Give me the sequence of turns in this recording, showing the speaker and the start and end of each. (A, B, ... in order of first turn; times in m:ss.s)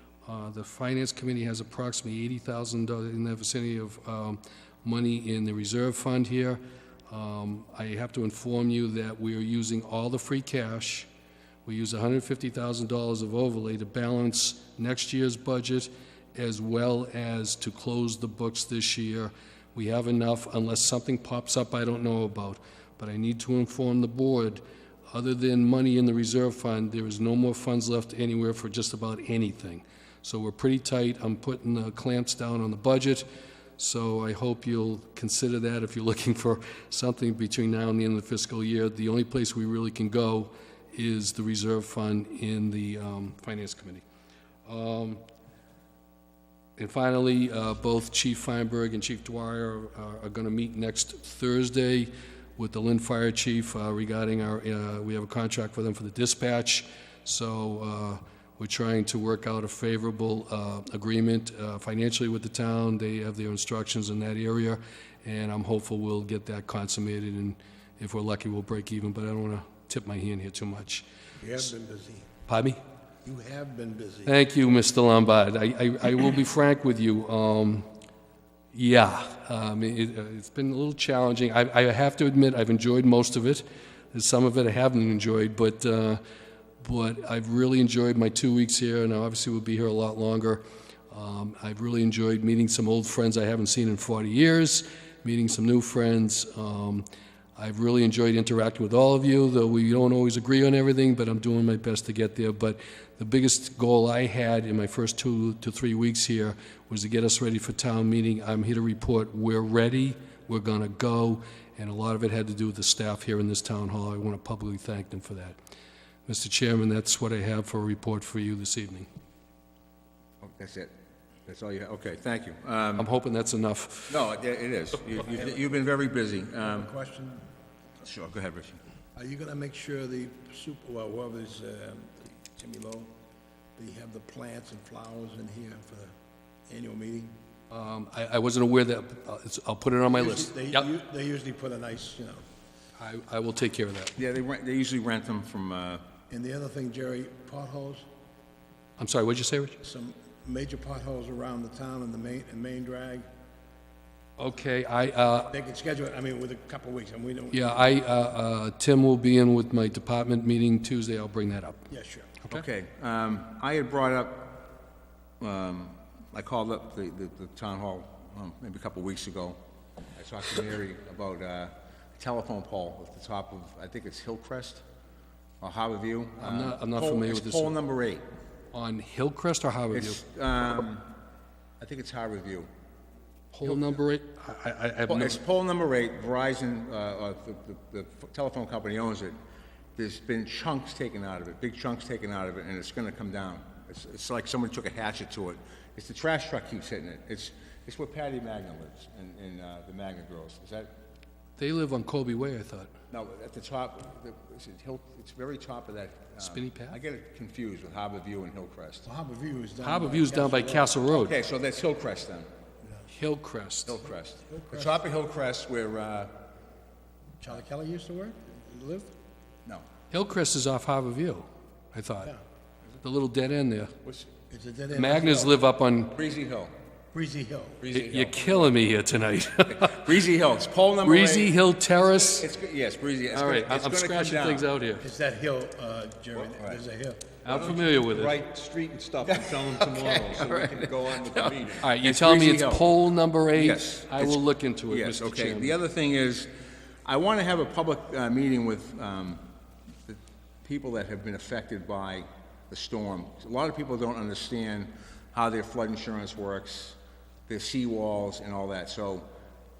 0:00.3-0:11.1 A
0:11.7-0:33.3 A
0:33.8-0:44.0 A
0:44.7-0:45.2 A
0:46.8-1:11.0 A
1:11.4-1:12.3 B
1:12.5-1:12.8 A
1:13.2-1:14.4 B
1:14.3-1:17.9 A
1:18.7-1:26.2 A
1:26.8-1:55.6 A
1:56.3-1:59.1 A
2:00.4-2:00.9 C
2:01.5-2:03.1 C
2:03.0-2:04.2 A
2:04.1-2:06.9 C
2:05.3-2:05.6 B
2:06.6-2:07.4 B
2:08.0-2:08.8 C
2:09.2-2:13.1 B
2:13.8-2:16.1 B
2:16.7-2:17.3 B
2:17.7-2:20.9 A
2:20.1-2:22.4 B
2:23.0-2:24.2 A
2:24.2-2:26.0 C
2:26.3-2:28.1 B
2:29.0-2:29.8 A
2:29.8-2:33.2 B
2:34.4-2:35.5 A
2:35.5-2:38.0 B
2:37.5-2:41.9 A
2:41.9-2:42.4 B
2:42.5-2:44.6 C
2:45.4-2:49.6 C
2:50.2-2:54.8 C
2:55.6-2:58.2 C
2:56.4-2:57.8 A
2:58.7-3:00.2 A
2:59.9-3:01.1 C
3:01.8-3:02.7 C
3:03.5-3:05.4 A
3:03.6-3:04.0 C
3:05.1-3:09.4 C
3:10.0-3:20.9 C
3:21.6-3:22.9 A
3:23.1-3:29.0 C
3:26.4-3:27.0 A
3:29.0-3:31.0 B
3:29.8-3:31.4 A
3:31.1-3:32.5 C
3:33.1-3:34.0 A
3:33.8-3:36.3 C
3:34.5-3:35.0 B
3:37.4-3:39.1 B
3:40.1-3:42.3 A
3:43.0-3:43.9 A
3:44.5-3:45.6 B
3:44.9-3:46.2 A
3:46.1-3:46.7 C
3:47.1-3:47.8 B
3:47.8-3:48.5 C
3:47.9-3:50.1 A
3:49.7-3:51.5 C
3:51.0-3:52.5 A
3:52.2-3:54.7 C
3:53.3-3:55.1 A
3:55.0-3:57.4 B
3:56.4-3:56.8 C
3:57.4-3:58.4 A
3:57.5-3:57.9 C
3:57.6-4:01.5 D
3:59.2-4:02.9 C
4:00.4-4:00.8 A
4:01.7-4:05.8 A
4:03.5-4:06.5 C
4:07.0-4:09.4 C
4:10.1-4:19.3 C